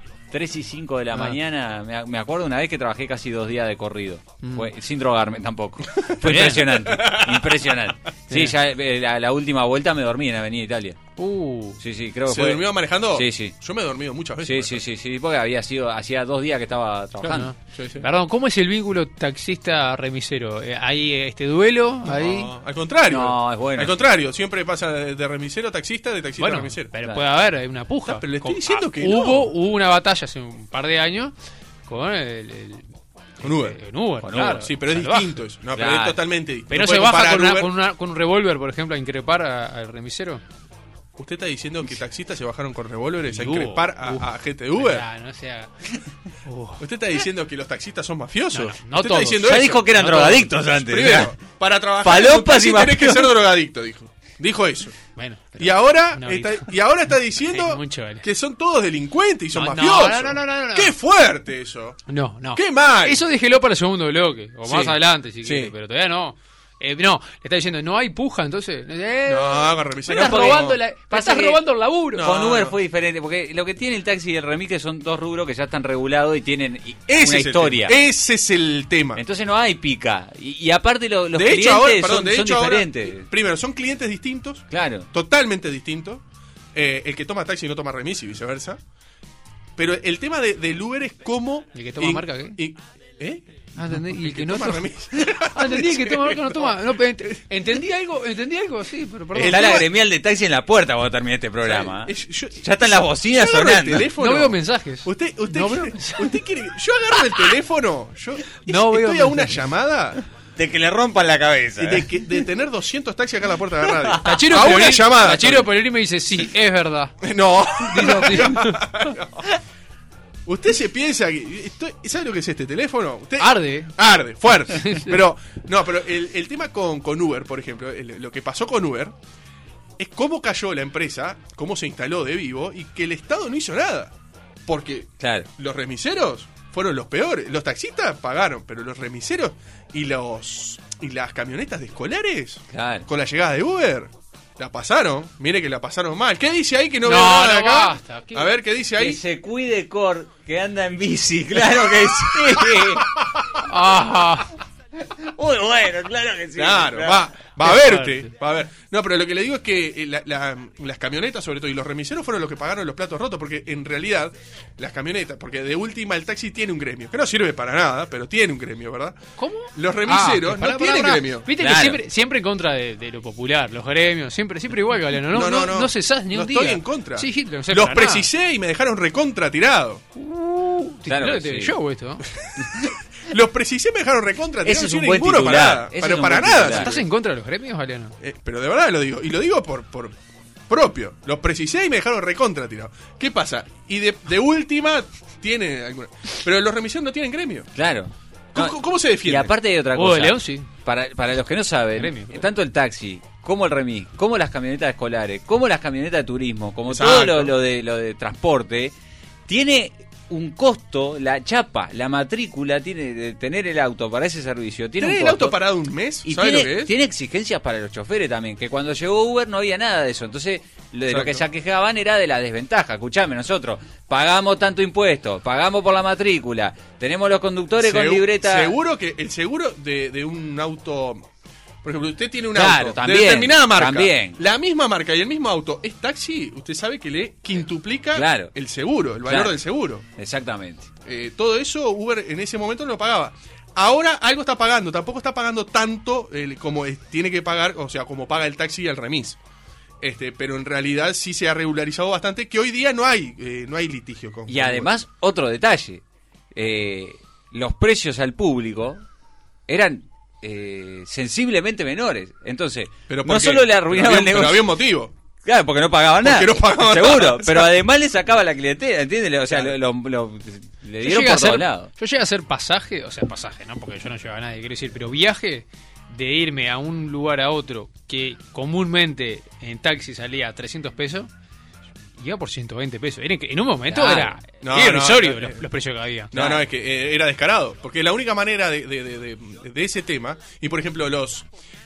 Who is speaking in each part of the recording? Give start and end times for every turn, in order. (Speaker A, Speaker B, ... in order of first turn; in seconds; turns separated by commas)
Speaker A: 0.3-11.1, Speaker B: 4.4-4.7, Speaker B: 6.2-6.8, Speaker C: 6.8-7.6, Speaker B: 8.3-8.6, Speaker B: 11.2-11.8, Speaker A: 11.8-13.5, Speaker C: 12.3-14.8, Speaker A: 14.4-17.5, Speaker C: 17.2-18.1, Speaker B: 17.3-22.5, Speaker C: 22.1-26.9, Speaker A: 23.1-23.9, Speaker B: 26.4-31.3, Speaker C: 28.1-29.5, Speaker B: 31.9-32.9, Speaker C: 33.4-33.8, Speaker B: 33.4-35.4, Speaker A: 34.2-34.7, Speaker C: 34.4-37.7, Speaker A: 35.7-36.2, Speaker B: 36.7-40.4, Speaker C: 41.2-45.0, Speaker B: 43.3-45.7, Speaker B: 46.5-46.8, Speaker C: 46.8-49.9, Speaker B: 48.5-50.5, Speaker A: 49.4-51.4, Speaker C: 50.7-55.0, Speaker A: 52.0-53.4, Speaker B: 55.2-56.7, Speaker C: 55.6-62.0, Speaker B: 57.4-58.2, Speaker B: 59.5-61.0, Speaker B: 62.1-72.3, Speaker C: 62.5-63.2, Speaker C: 64.7-65.7, Speaker C: 69.3-70.8, Speaker A: 70.1-71.6, Speaker C: 72.1-72.8, Speaker A: 72.2-78.0, Speaker C: 77.1-79.2, Speaker A: 79.2-83.3, Speaker C: 81.3-86.2, Speaker A: 84.7-85.1, Speaker C: 86.8-88.8, Speaker C: 89.8-96.8, Speaker B: 91.8-92.6, Speaker B: 93.8-99.7, Speaker C: 99.3-99.9, Speaker A: 99.5-104.1, Speaker C: 101.6-110.2, Speaker B: 104.2-106.4, Speaker B: 108.7-109.7, Speaker A: 110.6-112.1, Speaker C: 111.8-115.7, Speaker A: 113.8-114.4, Speaker B: 114.2-117.2, Speaker C: 117.2-119.5, Speaker B: 117.7-119.0, Speaker C: 120.5-129.1, Speaker B: 123.4-123.9, Speaker B: 124.7-125.2, Speaker C: 130.0-134.1, Speaker C: 134.7-149.2, Speaker A: 135.2-135.5, Speaker A: 142.7-143.1, Speaker B: 147.1-148.6, Speaker A: 149.0-153.2, Speaker C: 151.9-153.4, Speaker B: 153.6-154.6, Speaker A: 155.0-157.3, Speaker C: 156.6-169.2, Speaker B: 157.6-158.3, Speaker B: 169.4-178.3, Speaker C: 169.7-171.5, Speaker A: 171.6-172.0, Speaker C: 175.3-180.0, Speaker B: 180.2-182.3, Speaker A: 181.1-181.8, Speaker A: 182.6-182.9, Speaker C: 182.8-187.1, Speaker A: 184.6-187.0, Speaker B: 186.6-188.2, Speaker C: 188.2-190.2, Speaker C: 190.7-197.7, Speaker A: 197.8-208.9, Speaker C: 198.5-199.5, Speaker B: 199.9-200.7, Speaker B: 202.0-202.4, Speaker C: 206.9-207.5, Speaker A: 209.5-215.6, Speaker C: 215.0-216.9, Speaker A: 216.2-228.8, Speaker C: 221.1-221.4, Speaker C: 227.8-231.3, Speaker C: 231.8-240.1, Speaker A: 232.5-234.4, Speaker A: 238.1-238.5, Speaker A: 239.2-239.6, Speaker A: 240.1-240.9, Speaker C: 241.1-249.4, Speaker C: 250.0-254.9, Speaker A: 254.5-256.0, Speaker A: 256.5-259.1, Speaker A: 259.7-264.7, Speaker C: 263.1-265.1, Speaker A: 265.4-271.9, Speaker C: 266.2-267.8, Speaker C: 269.5-269.8, Speaker B: 271.0-281.3, Speaker B: 282.2-286.4, Speaker A: 283.9-284.4, Speaker C: 284.6-285.6, Speaker C: 286.3-291.5, Speaker A: 286.4-286.6